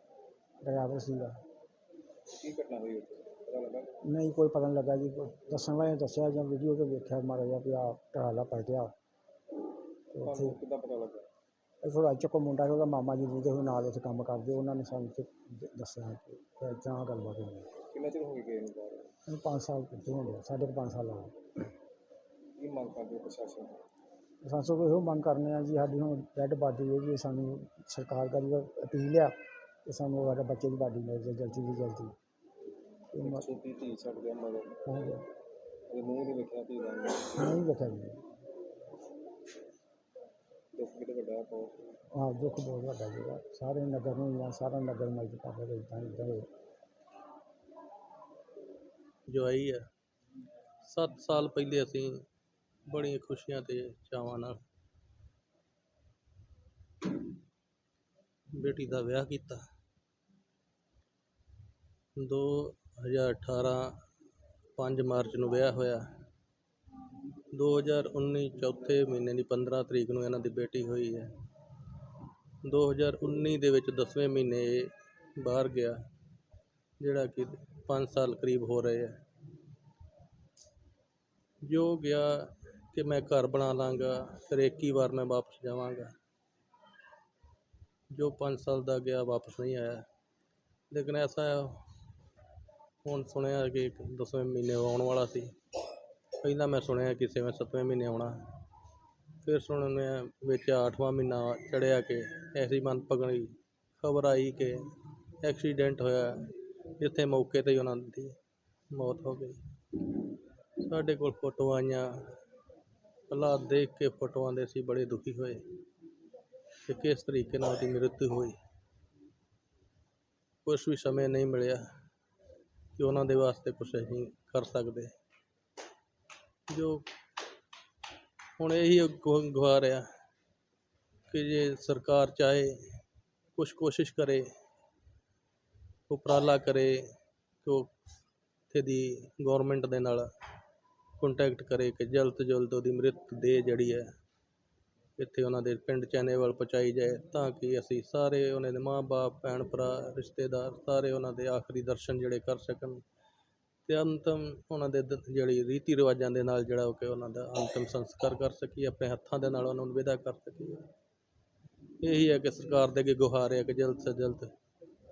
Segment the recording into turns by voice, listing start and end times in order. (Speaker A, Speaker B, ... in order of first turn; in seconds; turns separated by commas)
Speaker A: 0.6-1.4, Speaker B: 2.3-3.9, Speaker A: 4.1-8.9, Speaker A: 10.1-10.6, Speaker B: 10.2-11.3, Speaker A: 11.8-17.7, Speaker B: 17.9-19.1, Speaker A: 19.3-21.4, Speaker B: 22.6-23.8, Speaker A: 24.4-29.3, Speaker A: 29.9-32.1, Speaker A: 33.1-33.5, Speaker B: 33.2-34.8, Speaker A: 34.9-35.3, Speaker B: 35.9-37.4, Speaker A: 37.3-38.2, Speaker B: 40.8-41.9, Speaker A: 42.1-46.5, Speaker C: 49.3-49.8, Speaker C: 50.9-52.2, Speaker C: 52.9-54.6, Speaker C: 58.5-59.7, Speaker C: 62.2-64.0, Speaker C: 64.8-66.1, Speaker C: 67.5-71.3, Speaker C: 72.6-76.0, Speaker C: 77.0-79.2, Speaker C: 81.6-86.1, Speaker C: 88.1-90.1, Speaker C: 90.9-91.8, Speaker C: 93.0-95.5, Speaker C: 96.4-98.4, Speaker C: 99.4-104.9, Speaker C: 105.4-108.4, Speaker C: 108.9-110.3, Speaker C: 110.8-112.3, Speaker C: 113.3-115.7, Speaker C: 116.8-118.6, Speaker C: 120.7-121.8, Speaker C: 123.0-125.1, Speaker C: 126.7-127.1, Speaker C: 128.6-130.1, Speaker C: 131.3-132.8, Speaker C: 133.6-134.5, Speaker C: 136.1-137.0, Speaker C: 137.6-137.9, Speaker C: 138.7-140.3, Speaker C: 141.2-144.1, Speaker C: 145.2-153.0, Speaker C: 153.9-160.9, Speaker C: 162.0-164.5